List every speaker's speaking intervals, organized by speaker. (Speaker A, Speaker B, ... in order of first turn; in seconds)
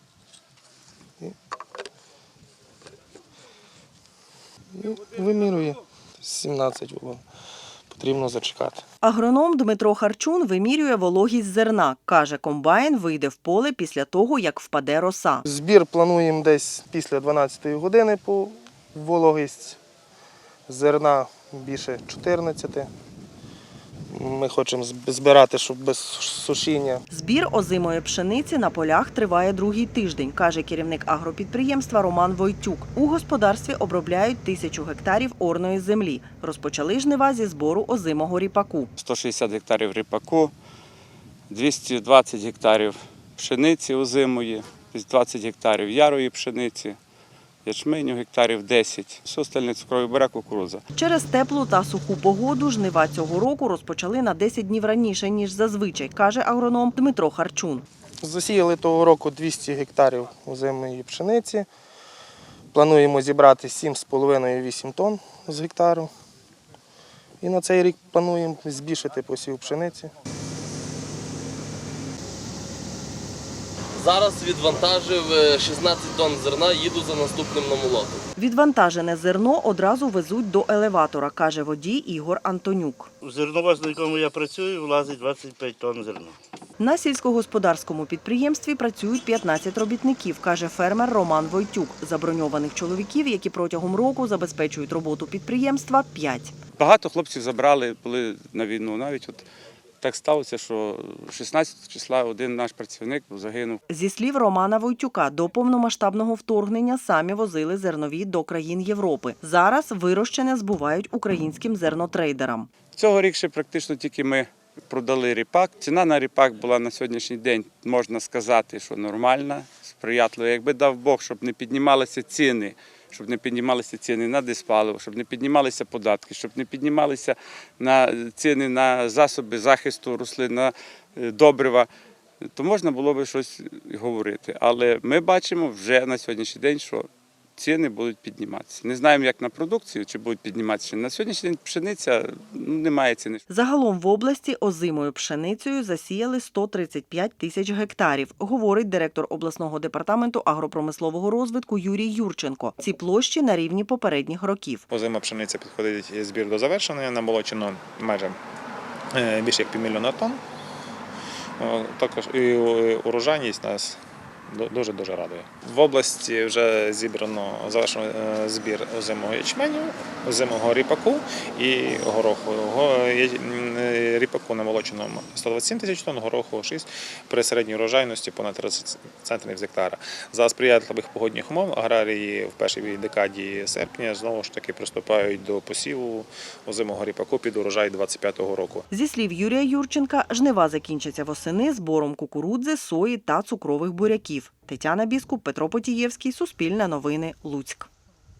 Speaker A: 4.7-7.2, 7.9-8.8, 15.4-19.8, 20.7-22.9, 24.1-27.0, 58.2-61.7, 62.7-66.1, 67.4-70.1
Speaker B: 9.0-15.4, 27.1-38.9, 50.9-57.8, 78.4-83.1, 86.8-96.5, 103.9-112.7, 143.5-154.8, 188.9-197.9
Speaker C: 39.0-40.5, 41.5-47.0, 47.6-50.8, 96.8-99.4, 100.0-103.8, 112.9-131.9, 132.5-137.1, 137.6-143.4
Speaker D: 74.0-78.2
Speaker E: 83.2-86.3
Speaker F: 154.9-158.4, 159.1-160.4, 161.6-164.0, 164.5-188.8